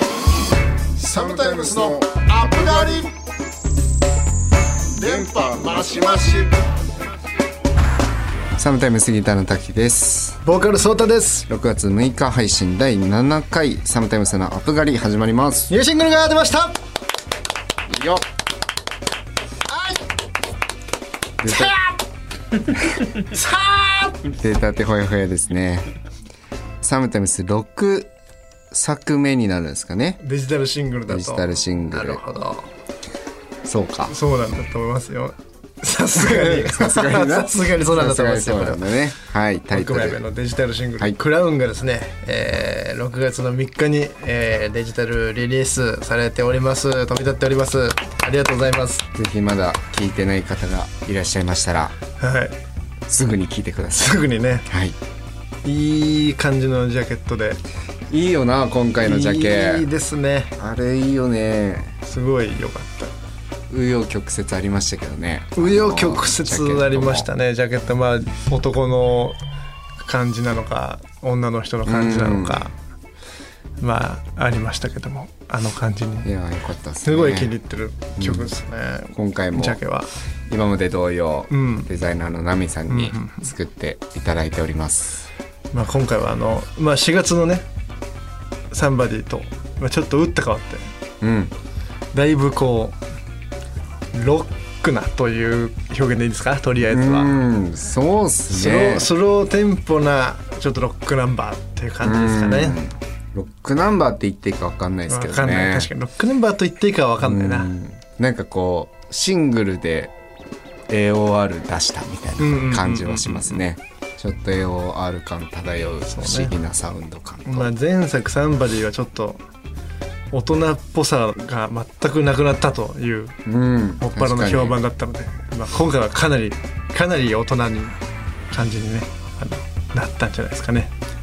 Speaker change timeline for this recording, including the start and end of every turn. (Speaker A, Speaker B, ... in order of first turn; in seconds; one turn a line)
Speaker A: 1.0-3.1
Speaker A: 5.0-6.6
Speaker B: 8.6-10.4
Speaker C: 10.4-11.5
Speaker B: 11.5-15.7
Speaker C: 15.7-16.8
Speaker B: 17.9-18.2
Speaker B: 21.4-21.7
Speaker C: 23.3-24.1
Speaker B: 24.4-25.9
Speaker B: 26.8-28.1
Speaker B: 28.7-30.2
Speaker C: 30.2-32.7
Speaker B: 31.1-32.2
Speaker B: 33.6-34.1
Speaker C: 34.1-38.9
Speaker B: 36.2-40.2
Speaker C: 39.7-49.1
Speaker B: 49.1-51.9
Speaker C: 52.2-52.5
Speaker B: 53.1-55.0
Speaker C: 54.0-54.7
Speaker C: 55.6-57.6
Speaker B: 58.1-59.9
Speaker C: 59.0-60.5
Speaker B: 60.6-61.9
Speaker C: 62.0-63.1
Speaker B: 63.7-67.3
Speaker C: 65.5-69.4
Speaker C: 70.0-72.7
Speaker B: 71.9-72.6
Speaker C: 73.8-76.3
Speaker B: 76.2-77.5
Speaker C: 77.0-80.1
Speaker B: 78.2-78.5
Speaker B: 79.1-79.8
Speaker B: 80.5-85.3
Speaker C: 81.5-81.9
Speaker C: 82.9-83.4
Speaker C: 85.7-87.7
Speaker C: 88.7-90.9
Speaker B: 91.2-91.5
Speaker C: 92.1-93.0
Speaker C: 94.1-97.4
Speaker B: 96.9-99.1
Speaker C: 98.5-102.8
Speaker B: 102.0-105.9
Speaker C: 105.1-107.7
Speaker B: 107.2-110.1
Speaker B: 110.9-117.7
Speaker C: 112.4-113.6
Speaker C: 116.1-116.5
Speaker C: 117.5-119.4
Speaker C: 120.3-123.4
Speaker B: 123.4-124.8
Speaker C: 124.0-128.0
Speaker C: 128.5-130.9